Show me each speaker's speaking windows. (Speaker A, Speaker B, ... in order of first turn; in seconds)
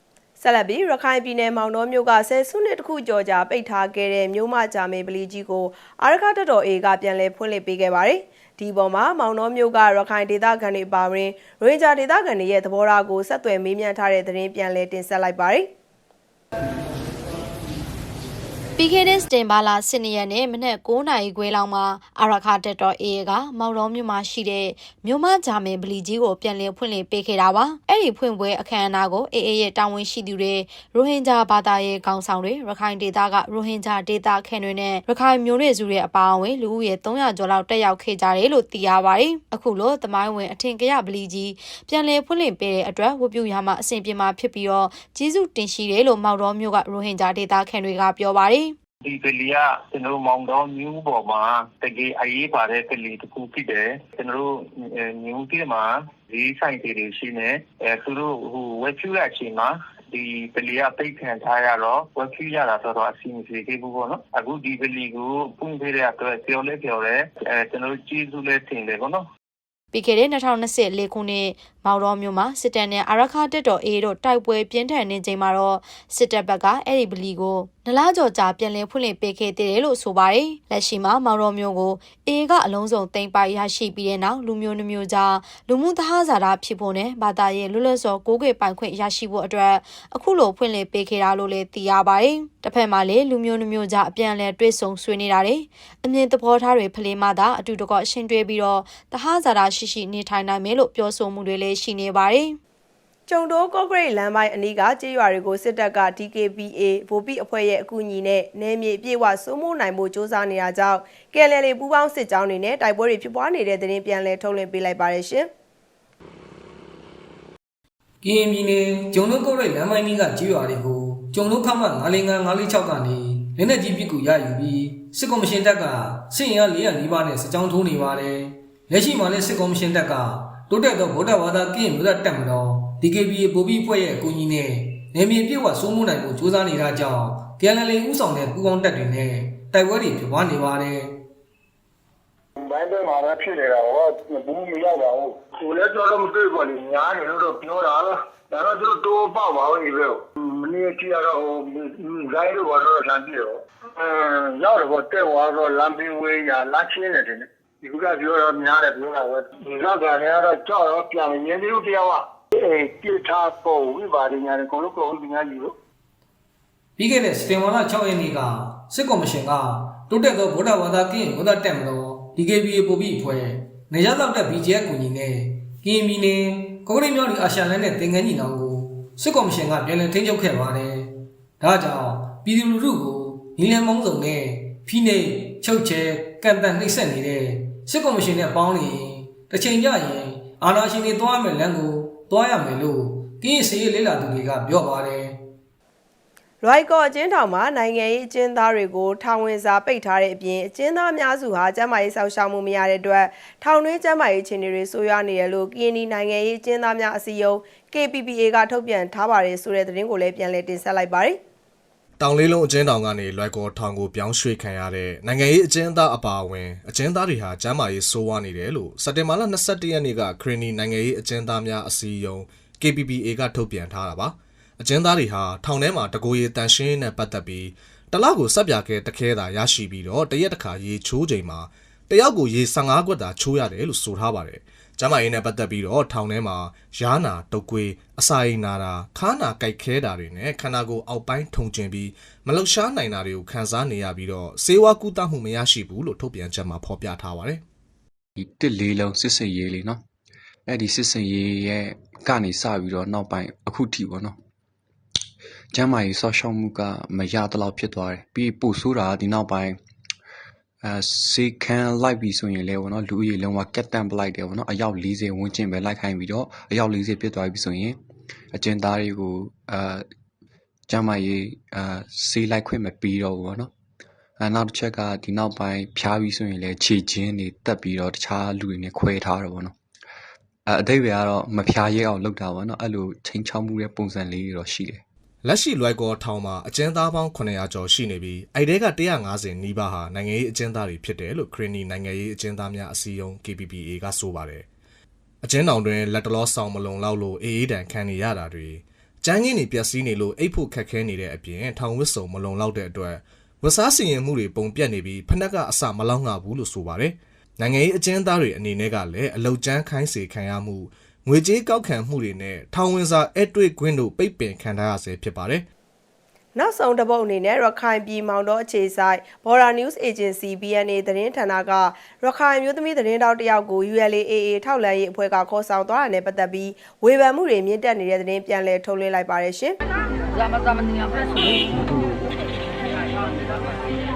Speaker A: 0.4-15.7, 103.3-115.5, 196.6-211.4, 316.5-329.8
Speaker B: 18.8-48.7, 69.9-102.5
Speaker C: 49.0-69.2
Speaker D: 118.2-141.1, 167.0-195.3
Speaker E: 142.6-165.8
Speaker F: 212.2-247.6, 285.4-294.6, 295.4-315.6
Speaker G: 248.4-250.0, 250.7-254.4, 255.7-259.8, 260.8-268.0, 268.5-270.1, 270.9-273.7, 274.4-279.8, 280.7-285.0